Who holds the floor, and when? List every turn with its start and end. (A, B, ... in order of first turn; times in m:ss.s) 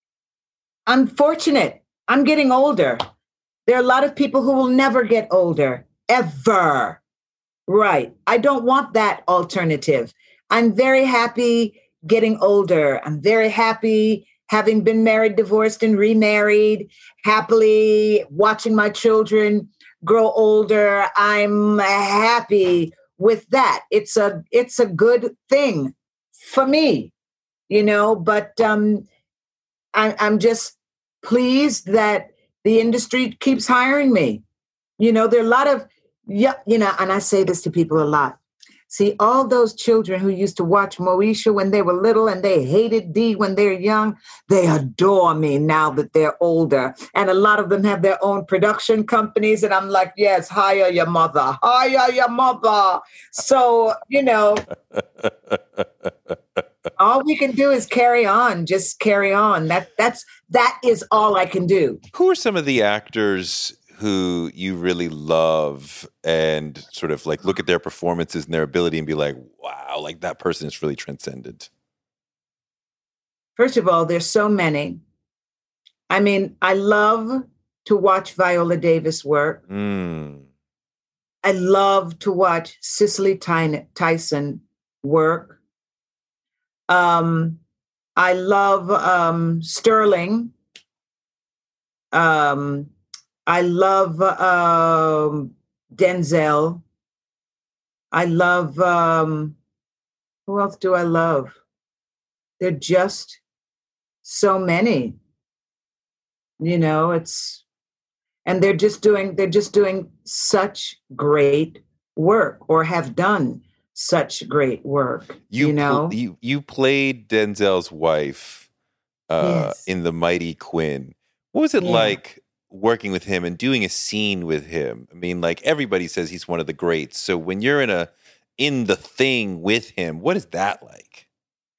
0:00.9-0:03.0 A
0:03.7-0:07.0 A
0:07.7-0:27.1 A
0:27.7-0:29.1 A
0:29.9-0:34.4 A
0:35.0-0:38.4 A
0:38.9-0:54.7 A
0:55.0-0:55.8 B
0:57.0-1:02.0 A
1:02.1-1:11.7 B
1:13.6-1:15.0 A
1:16.1-1:19.6 A
1:19.7-1:20.5 B
1:21.4-1:25.6 A
1:26.9-1:27.6 A
1:28.2-1:30.5 A
1:32.1-1:32.9 A
1:33.5-1:36.8 A
1:38.1-1:39.6 A
1:40.5-1:41.6 A
1:42.6-1:43.4 A
1:44.2-1:45.2 A
1:46.6-1:47.6 A
1:48.4-1:56.2 A
1:55.5-1:58.7 B
1:59.3-2:11.2 B
1:59.4-1:59.8 A
2:01.8-2:02.2 A